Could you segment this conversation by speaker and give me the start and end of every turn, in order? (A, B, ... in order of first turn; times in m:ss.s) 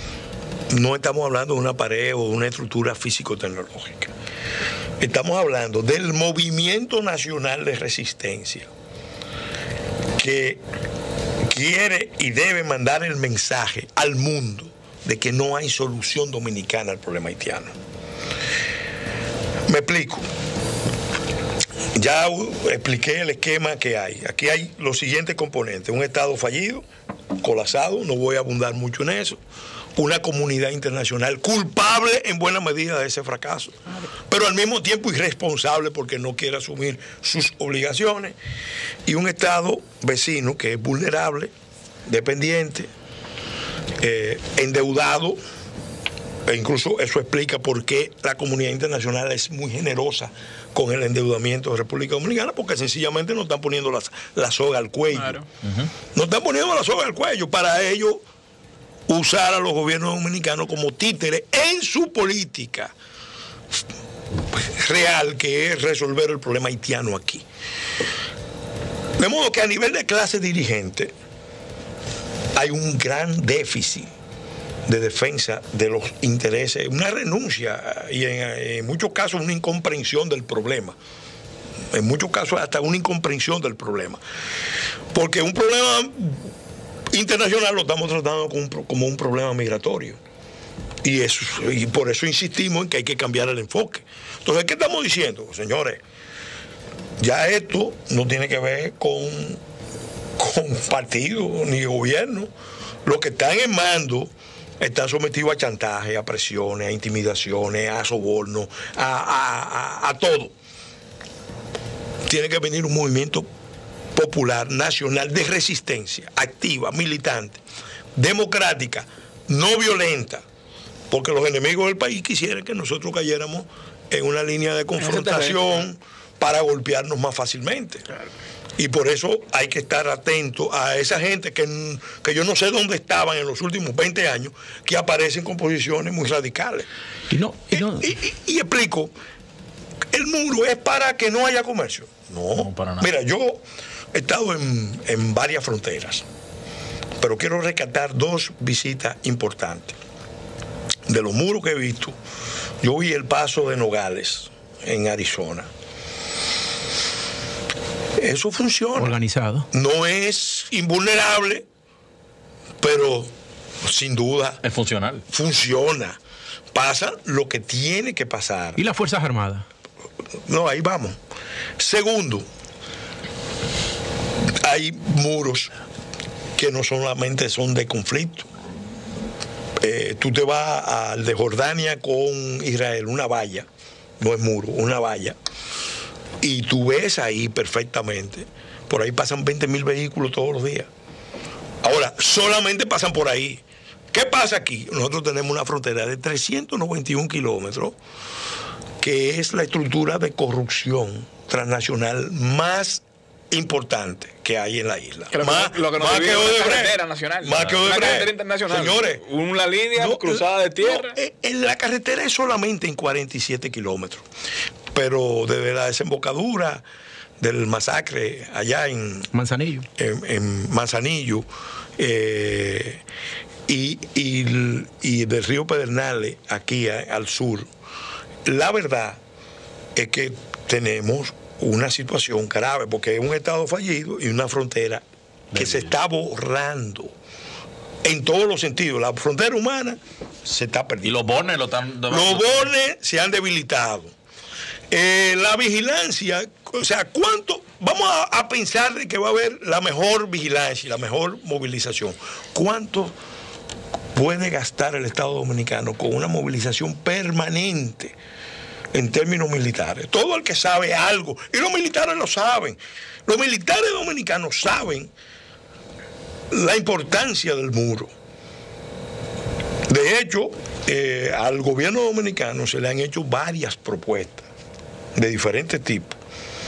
0:00.7-0:04.1 A
0:05.0-0:08.7 A
0:10.2-0:10.6 A
0:11.4-0:17.8 A
0:19.7-0:20.2 A
0:22.0-0:26.8 A
0:27.4-0:29.4 A
0:30.0-0:33.8 A
0:34.3-0:38.4 A
0:39.1-0:41.5 A
0:42.1-0:42.9 A
0:44.0-0:45.4 A
0:46.5-0:55.4 A
0:55.1-0:55.4 B
0:56.1-0:58.2 A
0:59.1-1:02.9 A
1:04.5-1:07.4 A
1:09.2-1:11.1 A
1:12.6-1:14.1 A
1:14.9-1:21.0 A
1:21.9-1:24.2 A
1:25.1-1:26.5 A
1:27.1-1:30.2 A
1:31.0-1:36.0 A
1:37.2-1:39.6 A
1:40.4-1:42.5 A
1:43.0-1:50.5 A
1:52.3-1:53.5 A
1:54.2-1:57.6 A
1:58.2-2:00.4 A
2:01.1-2:08.0 A
2:05.0-2:05.6 B
2:08.8-2:16.9 A
2:17.3-2:18.1 C
2:17.7-2:19.1 A
2:20.1-2:23.6 A
2:22.5-2:23.1 D
2:24.1-2:26.2 A
2:27.2-2:30.0 A
2:31.1-2:32.1 A
2:32.8-2:35.7 A
2:38.2-2:39.2 A
2:39.0-2:39.7 C
2:39.7-2:41.7 A
2:42.8-2:43.3 A
2:43.8-2:44.6 A
2:44.6-2:45.2 D
2:45.3-2:46.2 A
2:46.7-2:48.8 A
2:48.8-2:49.7 C
2:50.5-2:51.2 A
2:51.8-2:52.5 A
2:54.6-2:55.7 A
2:56.6-2:58.5 A
2:59.8-3:03.7 A
3:04.2-3:05.4 A
3:06.4-3:10.9 A
3:11.8-3:18.0 A
3:19.0-3:29.2 A
3:25.3-3:31.2 B
3:29.9-3:34.2 A
3:34.9-3:36.8 A
3:37.4-3:39.3 A
3:39.3-3:39.9 C
3:40.0-3:41.5 A
3:42.0-3:43.0 A
3:43.7-3:47.7 A
3:48.4-3:49.2 A
3:50.0-3:55.0 A
3:55.5-3:55.9 D
3:55.5-3:57.1 A
3:58.0-4:01.2 A
4:01.0-4:02.7 D
4:02.1-4:04.1 A
4:04.9-4:13.2 A
4:14.2-4:18.2 A
4:18.9-4:25.1 A
4:26.5-4:28.1 A
4:29.9-4:34.5 A
4:35.2-4:36.2 A